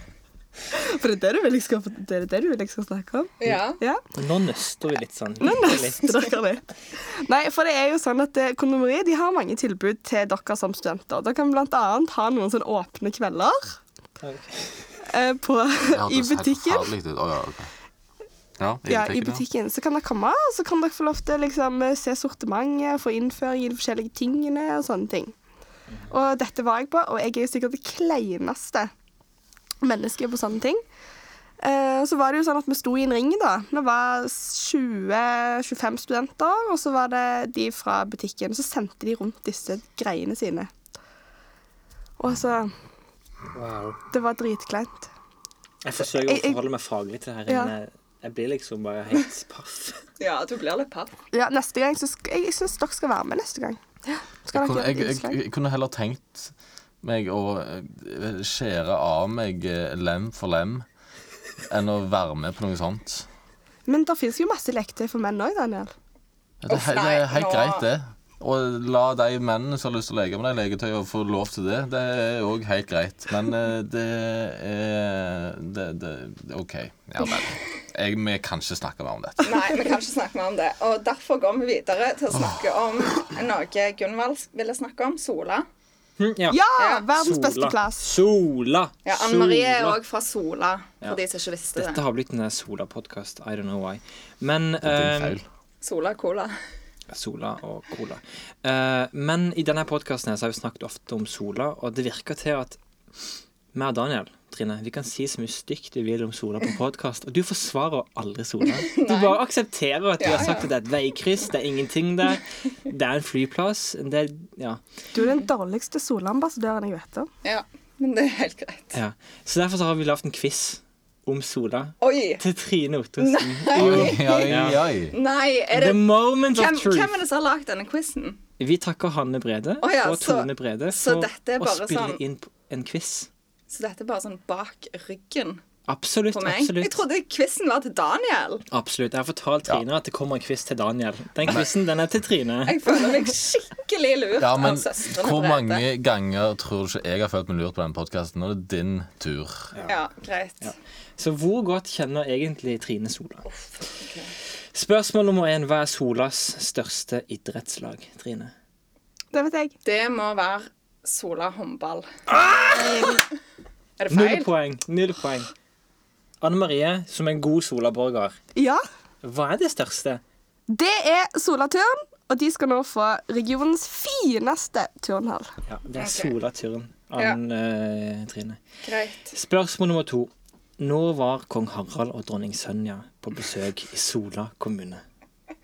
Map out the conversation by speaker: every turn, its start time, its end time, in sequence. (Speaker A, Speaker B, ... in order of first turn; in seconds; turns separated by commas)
Speaker A: 0.7-4.0, Speaker B: 3.4-3.8, Speaker C: 4.2-6.1, Speaker A: 5.4-13.8, Speaker C: 14.2-14.9, Speaker A: 15.1-16.9, Speaker D: 15.9-17.7, Speaker D: 18.6-19.4, Speaker A: 18.9-25.4, Speaker A: 26.1-28.9, Speaker A: 29.8-30.8, Speaker A: 31.6-40.7, Speaker A: 42.2-42.7, Speaker C: 43.5-44.0, Speaker A: 44.1-45.1, Speaker C: 45.8-50.0, Speaker A: 46.1-46.6, Speaker A: 47.5-47.7, Speaker B: 50.2-51.1, Speaker A: 51.3-55.4, Speaker D: 54.5-56.5, Speaker D: 57.0-60.9, Speaker D: 61.7-63.3, Speaker A: 63.9-65.9, Speaker D: 66.6-79.8, Speaker B: 66.7-67.8, Speaker B: 79.4-85.7, Speaker D: 82.3-82.6, Speaker C: 86.2-86.7, Speaker A: 86.5-88.1, Speaker B: 86.8-87.1, Speaker C: 87.2-90.0, Speaker B: 89.0-92.0, Speaker C: 91.7-95.4, Speaker D: 94.8-95.4, Speaker B: 95.8-96.5, Speaker C: 97.1-102.8, Speaker C: 103.7-114.8, Speaker B: 108.8-109.4, Speaker B: 110.2-110.7, Speaker A: 115.1-117.3, Speaker B: 117.4-119.0, Speaker C: 118.9-124.9, Speaker B: 122.0-122.4, Speaker B: 123.2-124.5, Speaker D: 123.7-125.2, Speaker B: 125.1-128.4, Speaker C: 125.7-127.2, Speaker C: 128.6-133.3, Speaker B: 129.8-132.2, Speaker B: 133.7-135.6, Speaker C: 135.9-137.0, Speaker B: 136.3-138.7, Speaker C: 138.7-142.8, Speaker B: 142.7-145.8, Speaker D: 144.4-149.8, Speaker B: 149.8-150.7, Speaker C: 150.6-153.5, Speaker B: 153.5-154.3, Speaker C: 154.7-158.5, Speaker A: 159.3-159.8, Speaker B: 159.8-162.1, Speaker C: 162.3-163.2, Speaker A: 162.8-163.0, Speaker B: 164.0-164.5, Speaker C: 164.1-165.5, Speaker C: 166.4-168.4, Speaker A: 168.6-168.8, Speaker C: 169.2-170.2, Speaker A: 170.7-175.5, Speaker C: 175.7-178.6, Speaker B: 176.0-176.3, Speaker B: 178.8-179.3, Speaker C: 179.3-185.0